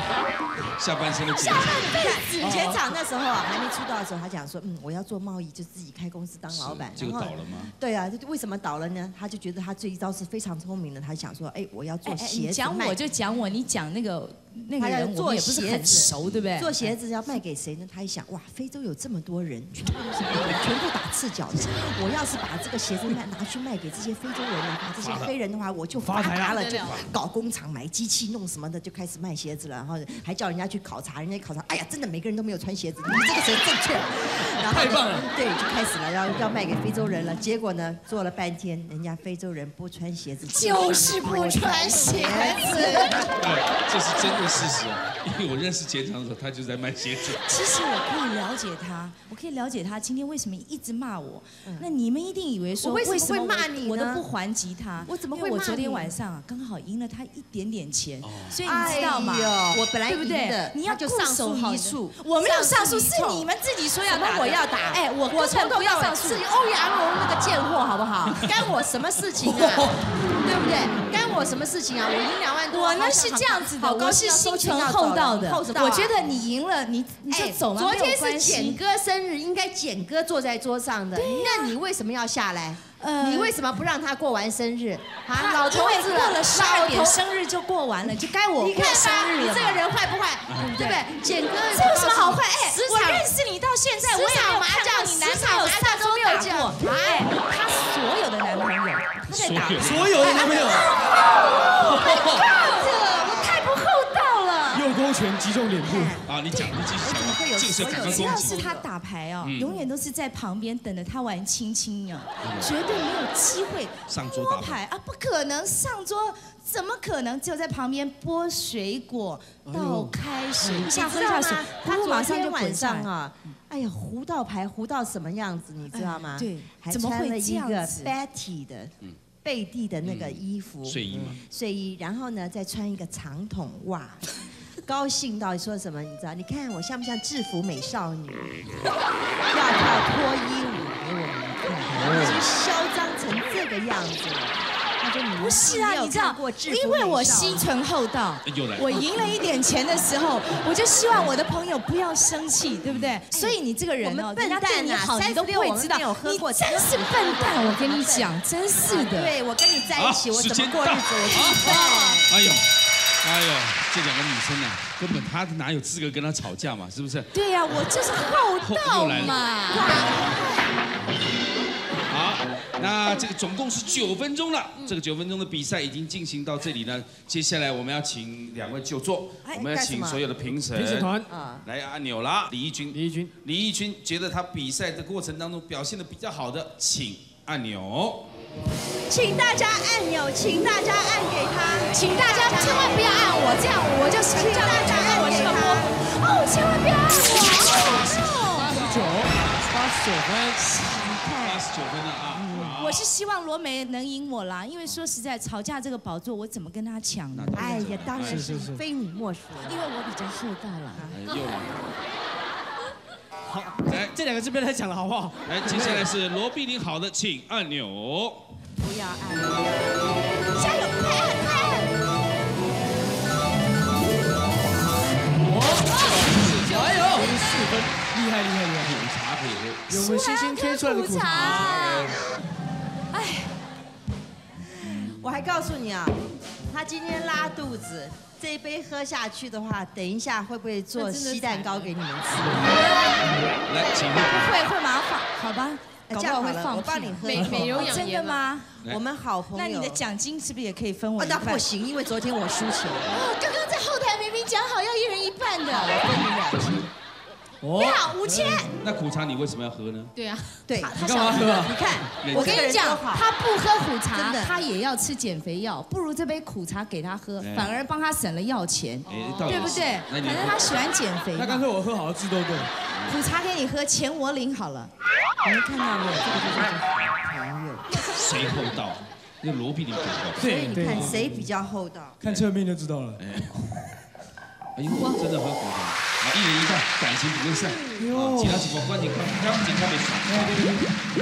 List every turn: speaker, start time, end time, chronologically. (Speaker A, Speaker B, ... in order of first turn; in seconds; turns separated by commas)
Speaker A: 0.8-2.1, Speaker B: 1.3-13.0, Speaker C: 1.9-2.7, Speaker D: 2.4-2.8, Speaker A: 6.5-7.7, Speaker C: 12.1-16.9, Speaker B: 14.8-43.4, Speaker A: 25.0-25.4, Speaker D: 25.9-26.6, Speaker E: 26.4-27.0, Speaker D: 34.6-35.3, Speaker C: 40.5-43.3, Speaker A: 43.2-47.4, Speaker C: 47.4-66.4, Speaker B: 52.8-54.3, Speaker B: 55.0-56.1, Speaker A: 58.2-58.6, Speaker B: 58.6-63.5, Speaker B: 64.1-69.9, Speaker B: 70.4-76.1, Speaker C: 72.7-78.8, Speaker B: 77.3-87.2, Speaker C: 81.2-81.8, Speaker C: 83.0-83.5, Speaker C: 85.3-89.8, Speaker B: 88.1-93.3, Speaker A: 90.5-90.7, Speaker C: 90.6-91.1, Speaker C: 91.7-104.9, Speaker B: 94.0-96.8, Speaker A: 99.3-100.2, Speaker D: 99.8-100.9, Speaker B: 100.2-100.7, Speaker D: 101.8-102.4, Speaker B: 102.4-103.5, Speaker D: 104.7-106.2, Speaker B: 105.8-108.9, Speaker A: 106.2-108.7, Speaker C: 107.8-123.1, Speaker A: 109.4-109.8, Speaker A: 112.4-113.0, Speaker A: 114.1-114.8, Speaker D: 119.7-120.1, Speaker B: 120.6-138.7, Speaker C: 125.9-128.1, Speaker A: 130.0-131.4, Speaker B: 139.5-147.7, Speaker C: 145.4-159.3, Speaker A: 148.4-149.1, Speaker A: 152.9-153.2, Speaker B: 153.3-162.4, Speaker A: 159.9-167.3, Speaker C: 161.3-162.3, Speaker C: 167.3-170.2, Speaker A: 168.6-169.4, Speaker B: 169.1-170.7, Speaker A: 172.1-188.3, Speaker B: 179.5-180.2, Speaker D: 180.7-181.3, Speaker B: 181.3-181.6, Speaker D: 182.9-183.3, Speaker B: 189.1-193.1, Speaker C: 191.9-198.8, Speaker B: 194.3-196.0, Speaker D: 198.6-200.6, Speaker A: 198.8-199.2, Speaker C: 200.6-201.6, Speaker A: 201.4-203.1, Speaker D: 202.4-202.8, Speaker C: 202.8-207.9, Speaker A: 207.3-208.5, Speaker B: 207.5-209.8, Speaker D: 208.2-208.8, Speaker C: 209.6-211.1, Speaker B: 211.0-211.2, Speaker A: 211.1-211.8, Speaker D: 213.5-216.1, Speaker A: 213.9-214.2, Speaker A: 215.5-218.5, Speaker B: 218.8-220.2, Speaker C: 220.6-221.9, Speaker D: 225.4-229.0, Speaker C: 225.8-227.6, Speaker A: 228.8-229.9, Speaker D: 229.9-231.7, Speaker C: 229.9-232.2, Speaker A: 231.3-232.1, Speaker C: 233.1-233.5, Speaker B: 234.8-242.8, Speaker C: 240.9-241.9, Speaker C: 242.6-243.3, Speaker A: 243.7-244.7, Speaker C: 244.3-248.7, Speaker B: 246.1-248.0, Speaker E: 247.2-248.5, Speaker B: 248.8-250.0, Speaker C: 249.5-251.6, Speaker B: 251.2-253.2, Speaker C: 253.0-256.2, Speaker B: 255.7-256.9, Speaker D: 257.6-258.6, Speaker C: 257.7-258.7, Speaker A: 258.7-260.1, Speaker E: 260.1-260.6, Speaker B: 260.7-263.3, Speaker C: 260.8-261.5, Speaker D: 260.9-261.9, Speaker A: 262.1-262.7, Speaker C: 262.3-271.7, Speaker B: 264.1-264.6, Speaker A: 267.4-267.7, Speaker A: 269.1-270.9, Speaker B: 269.5-269.8, Speaker D: 271.3-272.7, Speaker A: 272.9-273.2, Speaker C: 273.1-274.9, Speaker B: 275.4-278.1, Speaker A: 278.1-281.2, Speaker B: 280.4-282.2, Speaker D: 280.4-281.5, Speaker D: 282.2-283.2, Speaker A: 283.2-283.7, Speaker A: 284.8-290.8, Speaker D: 288.0-288.7, Speaker D: 290.3-290.8